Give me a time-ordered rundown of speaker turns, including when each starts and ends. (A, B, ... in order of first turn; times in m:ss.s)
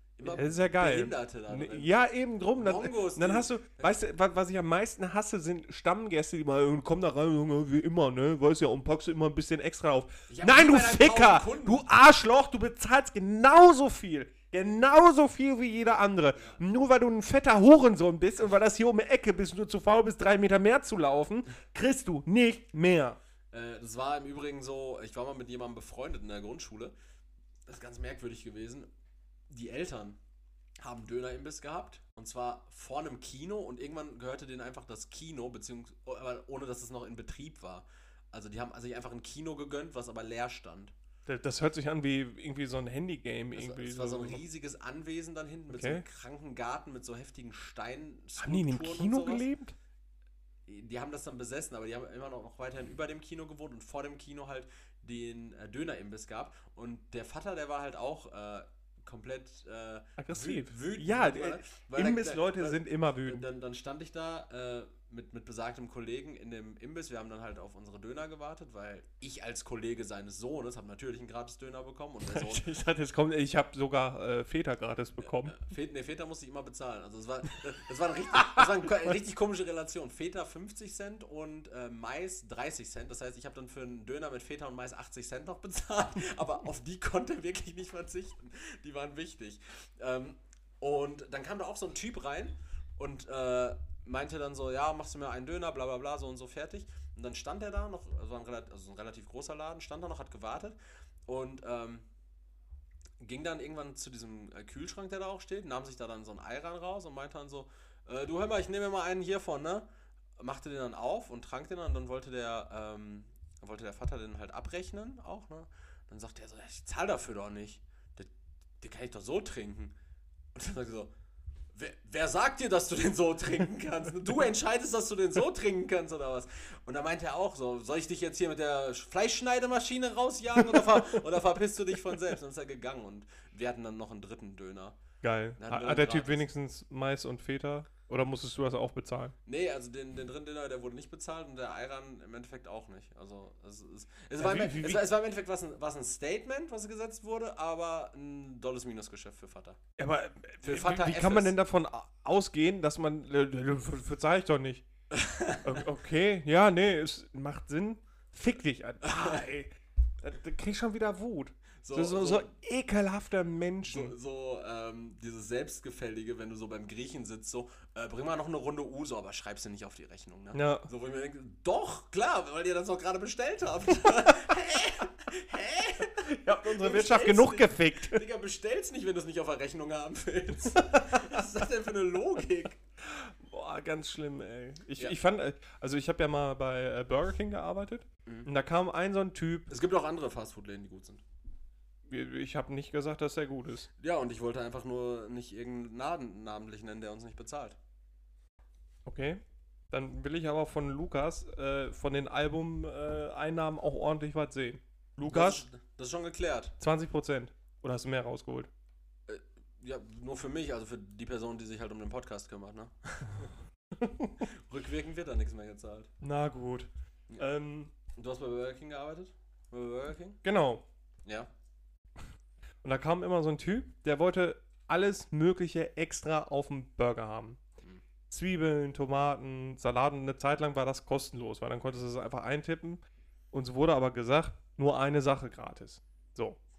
0:00.2-0:01.9 A
0:00.2-0:23.2 B
0:02.6-0:04.0 A
0:10.3-0:11.8 A
0:23.5-0:27.0 A
0:27.7-0:28.9 A
0:29.5-0:30.2 A
0:30.8-0:40.9 A
0:41.3-0:44.4 B
0:43.5-0:49.5 A
0:45.7-0:46.0 B
0:48.4-0:49.8 B
0:50.7-1:12.7 A
1:00.2-1:03.5 B
1:12.2-1:15.6 B
1:15.2-1:42.1 A
1:18.4-1:19.1 B
1:43.2-1:49.9 A
1:50.4-1:58.3 A
1:58.8-2:00.0 A
2:00.6-2:01.1 A
2:01.7-2:15.0 A
2:10.6-2:11.2 B
2:15.2-2:19.3 B
2:15.6-2:16.4 A
2:19.5-2:29.8 A
2:24.4-2:25.1 B
2:30.0-2:34.8 B
2:30.6-2:31.6 A
2:35.1-2:35.8 A
2:35.6-2:44.1 B
2:39.1-2:39.3 A
2:41.8-2:42.5 A
2:43.9-3:02.8 A
2:50.5-2:50.9 B
2:56.2-2:58.2 B
3:00.7-3:01.4 B
3:03.0-3:09.7 B
3:09.7-3:11.2 A
3:12.1-3:13.9 B
3:14.0-3:17.8 A
3:19.1-3:25.6 B
3:25.3-3:26.8 A
3:26.8-3:28.7 B
3:29.3-3:33.5 A
3:34.0-3:34.4 B
3:34.5-3:36.1 A
3:36.2-3:37.9 B
3:38.2-3:40.4 A
3:40.4-3:40.8 B
3:41.2-3:41.5 A
3:42.8-3:47.6 B
3:48.3-3:56.6 B